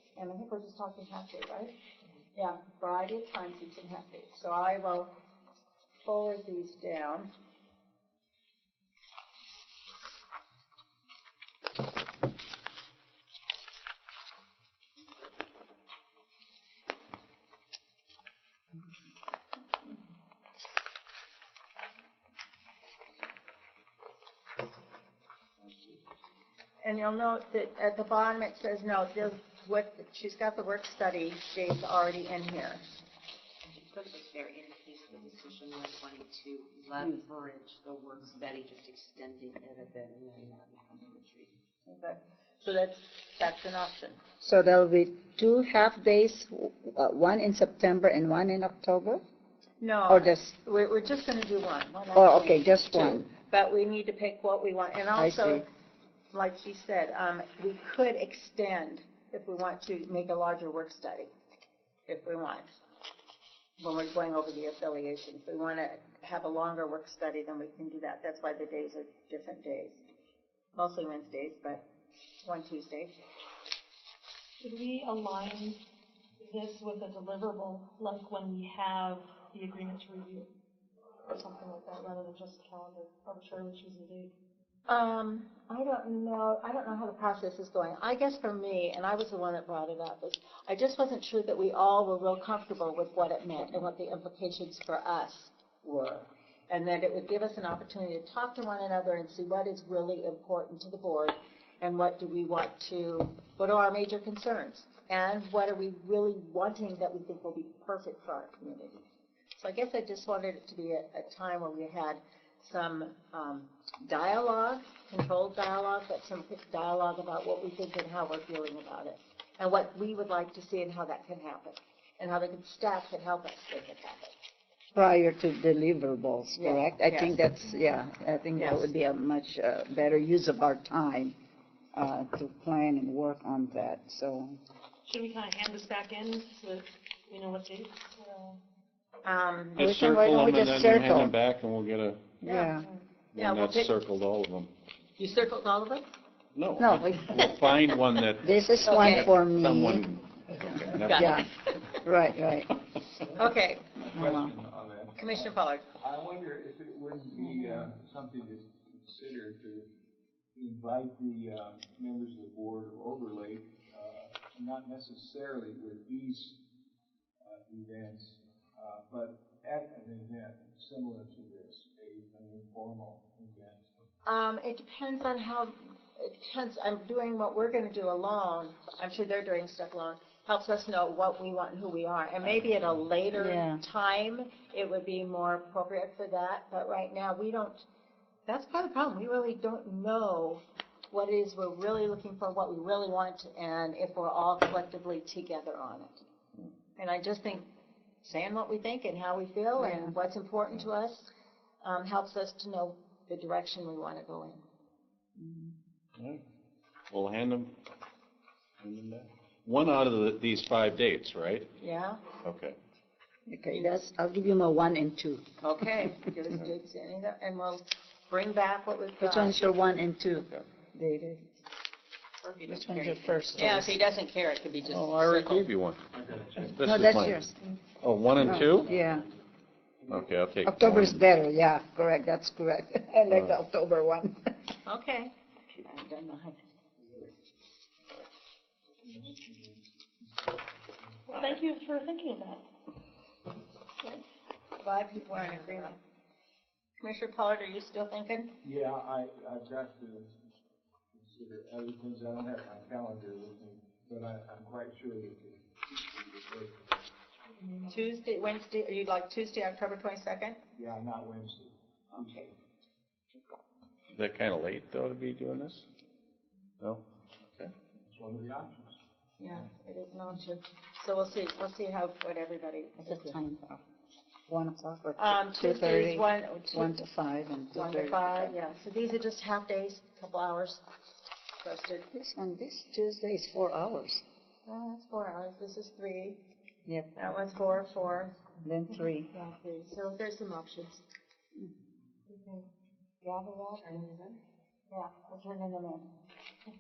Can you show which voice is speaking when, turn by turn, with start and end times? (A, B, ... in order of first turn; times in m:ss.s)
0:00.2-0:01.7 A
0:02.4-0:05.1 A
0:06.0-0:07.3 A
0:26.8-0:32.8 A
0:33.8-0:41.5 B
0:41.9-0:44.2 A
0:44.4-0:49.2 C
0:49.8-0:55.6 A
0:50.1-0:50.6 C
0:52.1-0:53.3 C
0:55.2-0:55.6 C
0:56.3-1:01.3 A
1:02.1-1:02.7 A
1:03.8-1:10.0 A
1:10.8-1:11.9 A
1:12.4-1:13.2 A
1:14.6-1:15.8 D
1:16.4-1:20.5 D
1:21.3-1:24.3 D
1:24.9-1:49.0 A
1:49.6-2:04.4 A
2:05.0-2:11.4 C
2:06.6-2:07.4 A
2:08.6-2:08.9 A
2:11.9-2:14.6 C
2:15.0-2:18.6 D
2:19.2-2:19.8 A
2:19.8-2:22.4 E
2:19.8-2:21.4 C
2:22.4-2:22.9 C
2:22.4-2:22.7 A
2:22.8-2:23.1 D
2:23.3-2:24.7 E
2:23.4-2:24.0 A
2:25.2-2:26.1 A
2:26.6-2:31.4 E
2:26.8-2:27.5 C
2:27.4-2:27.8 A
2:28.4-2:30.1 C
2:28.8-2:29.3 A
2:30.6-2:31.5 C
2:30.9-2:32.0 A
2:32.0-2:32.7 C
2:33.3-2:33.9 A
2:34.0-2:39.9 F
2:34.1-2:34.5 C
2:35.2-2:35.9 A
2:40.6-2:46.6 F
2:47.4-2:53.8 F
2:54.2-3:07.9 A
3:03.4-3:03.8 C
3:08.5-3:16.2 A
3:17.0-3:17.7 A
3:18.2-3:21.3 A
3:19.8-3:20.2 C
3:21.8-3:24.6 A
3:25.4-3:25.7 C
3:27.1-3:27.7 E
3:28.8-3:31.7 E
3:31.8-3:32.2 A
3:32.4-3:32.8 E
3:33.5-3:36.2 C
3:35.6-3:39.6 A
3:39.2-3:41.4 C
3:42.4-3:43.4 B
3:42.7-3:44.0 C
3:43.6-3:45.7 A
3:44.9-3:47.4 E
3:46.8-3:47.6 C
3:48.0-3:49.0 E
3:48.3-3:49.3 C
3:50.1-3:51.2 E
3:50.6-3:54.4 C
3:53.3-3:53.6 E
3:54.9-3:57.3 A
3:59.0-4:01.2 F
4:01.3-4:02.6 D
4:04.8-4:06.0 A
4:07.0-4:08.5 A
4:08.6-4:10.4 F
4:11.1-4:17.1 F
4:17.6-4:17.9 D
4:17.9-4:20.6 A
4:20.8-4:22.5 F
4:22.1-4:22.5 A
4:24.1-4:25.8 E
4:28.1-4:29.0 F
4:29.4-4:33.4 A
4:33.0-4:33.8 C
4:34.5-4:38.5 C
4:35.2-4:37.0 A
4:37.7-4:40.8 A
4:41.6-4:42.1 A
4:42.1-4:44.2 C
4:44.7-4:46.4 A
4:46.9-4:47.1 C
4:47.2-4:51.0 A
4:48.6-4:49.3 C
4:52.3-4:52.6 A
4:53.2-4:54.2 A
4:54.9-4:56.1 A